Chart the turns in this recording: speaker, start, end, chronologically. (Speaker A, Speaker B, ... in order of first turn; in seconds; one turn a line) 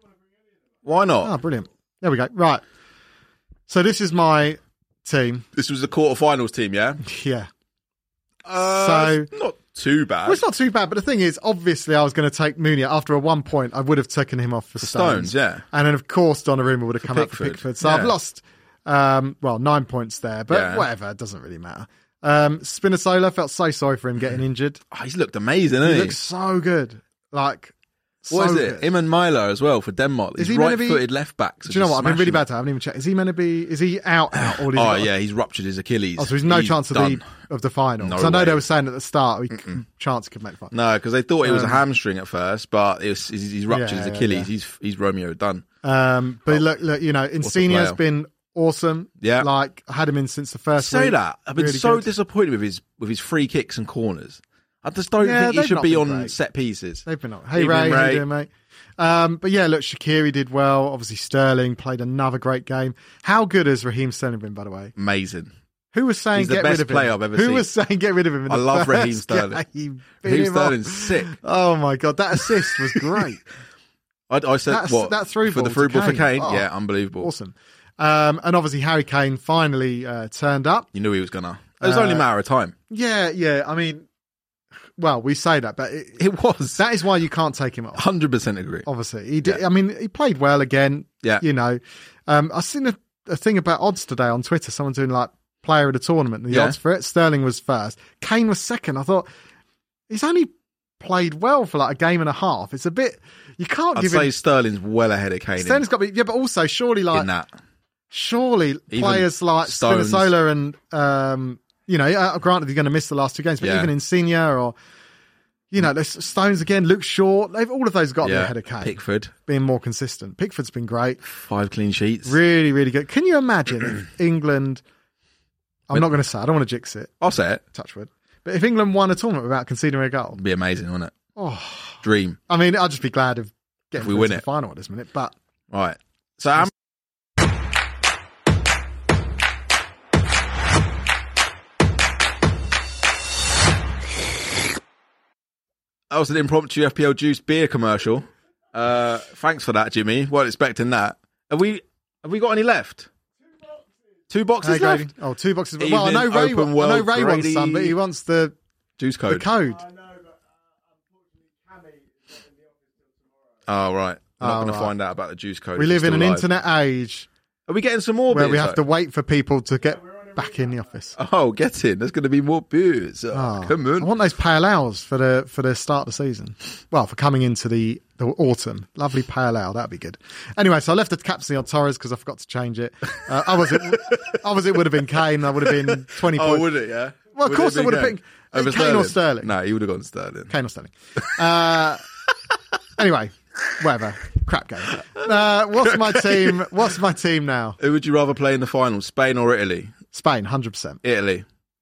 Speaker A: 0.8-1.4
Speaker B: 1.2-2.6
Speaker B: 3.7-5.5
Speaker A: 5.5-7.0
Speaker B: 7.0-7.5
Speaker A: 8.4-10.4
Speaker B: 8.6-9.3
Speaker B: 10.2-24.8
Speaker A: 14.8-15.6
Speaker A: 17.0-18.1
Speaker A: 20.5-20.9
Speaker A: 24.9-26.2
Speaker B: 25.8-28.9
Speaker A: 28.3-32.4
Speaker B: 30.4-31.1
Speaker B: 31.7-35.1
Speaker A: 34.5-37.3
Speaker B: 36.2-40.7
Speaker A: 38.0-38.6
Speaker A: 40.7-45.6
Speaker B: 41.4-41.8
Speaker B: 43.7-44.5
Speaker B: 45.8-52.1
Speaker A: 47.4-48.0
Speaker A: 49.2-49.5
Speaker A: 50.8-58.2
Speaker B: 55.2-56.3
Speaker B: 57.1-64.9
Speaker A: 65.0-65.5
Speaker B: 65.9-73.4
Speaker A: 66.3-67.7
Speaker A: 68.5-69.6
Speaker A: 70.2-71.3
Speaker A: 74.3-77.3
Speaker B: 74.7-80.9
Speaker A: 80.9-82.8
Speaker B: 81.8-82.3
Speaker B: 82.9-84.1
Speaker B: 85.0-86.2
Speaker A: 86.2-86.8
Speaker B: 86.8-88.0
Speaker A: 88.0-88.9
Speaker B: 88.9-99.3
Speaker A: 96.5-96.8
Speaker B: 100.1-104.3
Speaker A: 104.0-105.9
Speaker B: 105.6-107.3
Speaker A: 107.1-107.5
Speaker B: 108.1-114.8
Speaker A: 108.9-110.3
Speaker A: 113.6-113.9
Speaker B: 115.7-121.2
Speaker A: 118.2-119.3
Speaker A: 121.2-122.4
Speaker B: 122.3-124.8
Speaker B: 125.9-127.1
Speaker A: 127.2-127.6
Speaker B: 127.7-130.4
Speaker A: 130.4-131.1
Speaker B: 131.4-135.3
Speaker A: 132.0-132.4
Speaker A: 134.0-134.4
Speaker A: 135.7-136.7
Speaker A: 146.1-153.1
Speaker A: 154.3-155.1
Speaker B: 154.6-158.6
Speaker A: 155.8-158.0
Speaker A: 159.0-159.5
Speaker B: 159.3-160.0
Speaker A: 163.7-166.5
Speaker B: 164.4-164.9
Speaker B: 165.8-167.3
Speaker A: 167.7-168.8
Speaker B: 168.3-171.2
Speaker A: 171.2-174.1
Speaker B: 173.3-186.7
Speaker A: 183.7-184.4
Speaker A: 185.6-190.5
Speaker B: 187.3-189.5
Speaker B: 190.5-192.0
Speaker B: 193.0-197.8
Speaker A: 195.2-196.7
Speaker A: 197.8-199.9
Speaker B: 200.1-201.0
Speaker A: 201.0-201.5